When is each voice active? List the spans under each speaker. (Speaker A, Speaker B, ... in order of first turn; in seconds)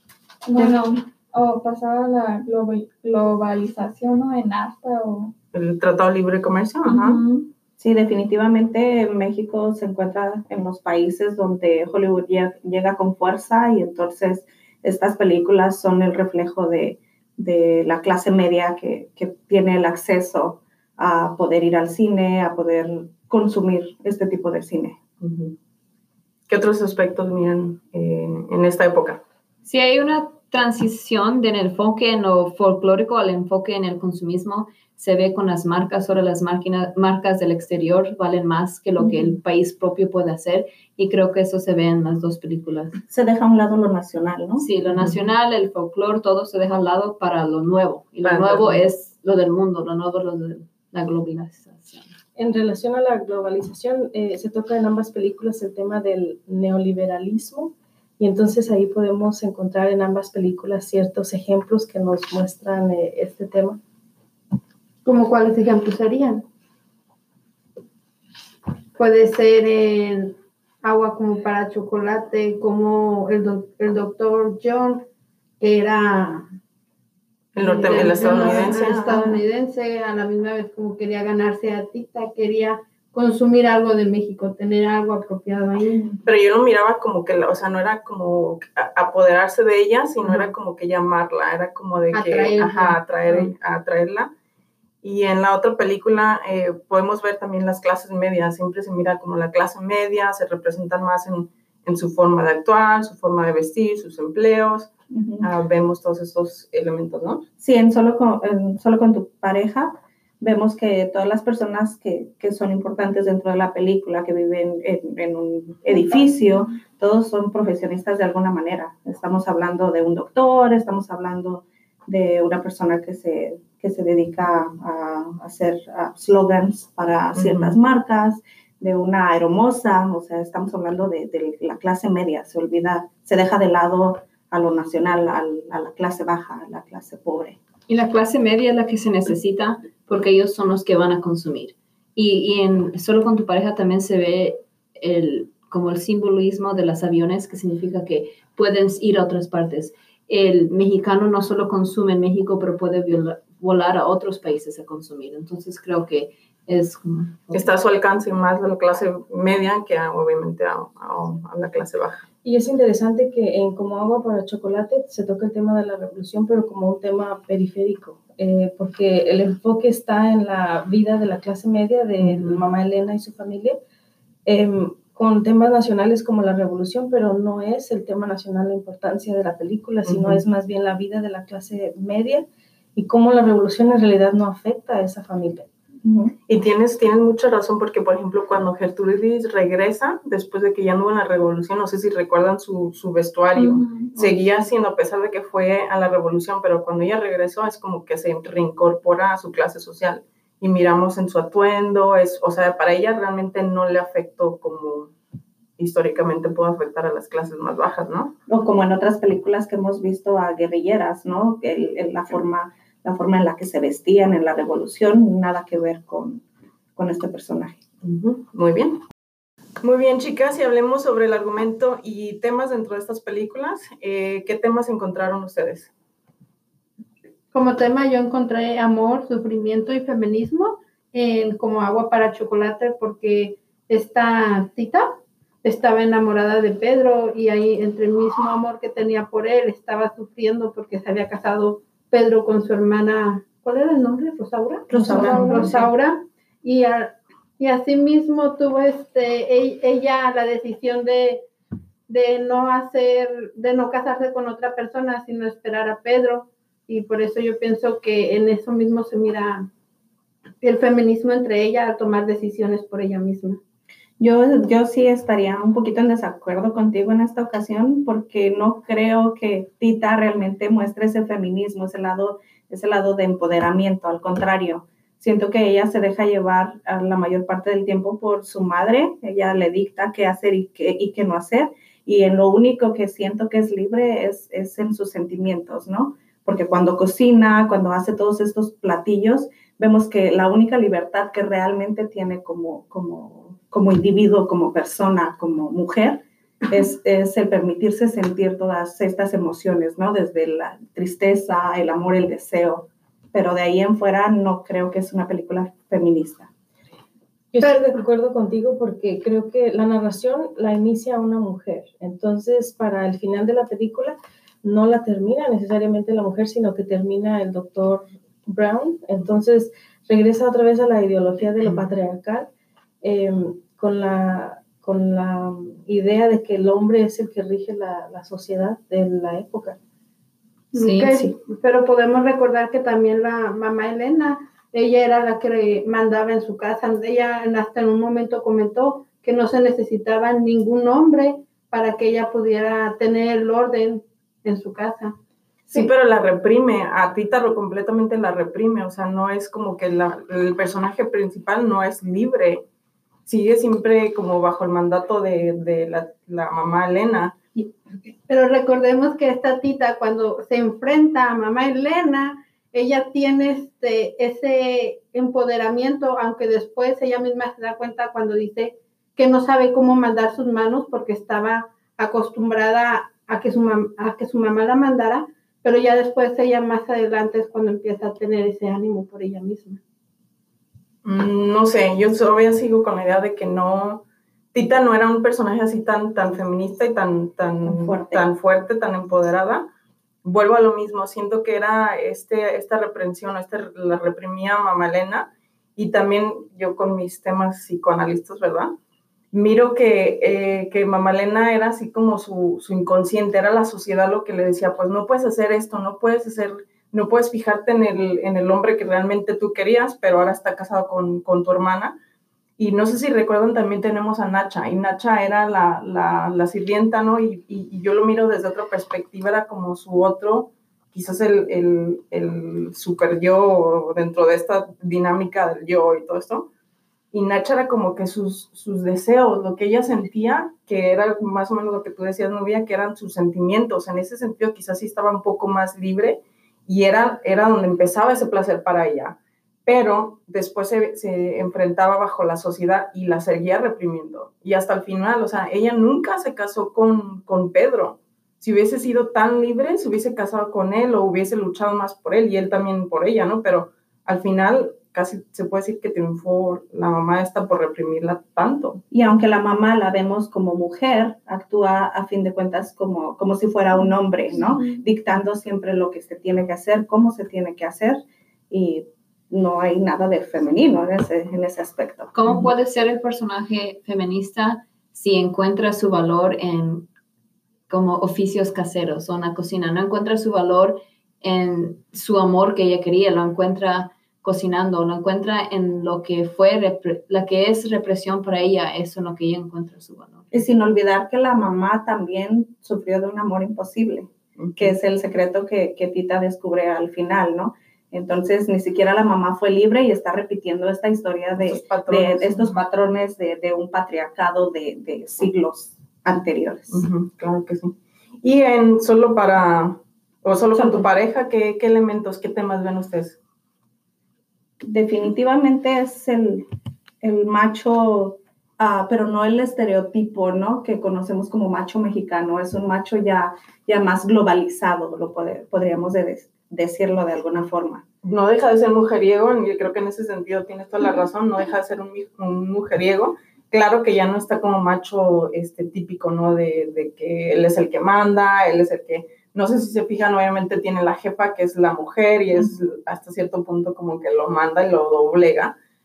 Speaker A: 0.5-5.3, 6.8-7.5, 193.6-194.4, 244.9-245.8, 463.8-464.8
Speaker B: 5.5-7.2, 25.2-25.6, 26.5-29.2, 44.9-45.2, 48.2-48.8, 77.6-79.1, 86.2-94.3, 95.0-104.9, 105.4-107.4, 127.3-127.8, 157.5-162.2, 172.2-172.6, 180.1-180.4, 186.5-205.1, 205.8-208.3, 218.0-219.0, 219.8-225.9, 345.7-352.6, 353.3-357.4, 381.1-389.7, 390.2-398.7, 399.3-412.0, 412.6-426.5, 427.1-458.8, 494.4-494.8, 501.4-502.6, 506.7-513.2, 528.0-545.5
Speaker C: 7.8-25.0, 43.1-44.7, 78.2-79.4, 105.1-105.5, 107.6-137.6, 186.0-186.3, 208.5-216.4, 217.0-217.8, 244.9-245.9, 264.2-306.5, 387.6-388.2, 458.9-472.1, 490.3-506.9, 510.6-510.9, 514.6-516.5, 517.0-527.8
Speaker D: 29.6-43.0, 44.6-52.1, 137.9-157.8, 330.7-331.3, 472.1-476.9, 477.7-490.3
Speaker E: 52.4-63.8, 162.4-173.8, 174.5-185.7, 307.5-322.5, 323.0-329.8
Speaker F: 65.0-66.4, 69.0-75.0, 75.6-76.5, 77.5-86.2, 90.2-90.5, 92.1-93.5, 227.5-251.4, 252.1-259.7, 260.6-263.6, 307.6-307.9, 330.7-345.2, 358.3-379.8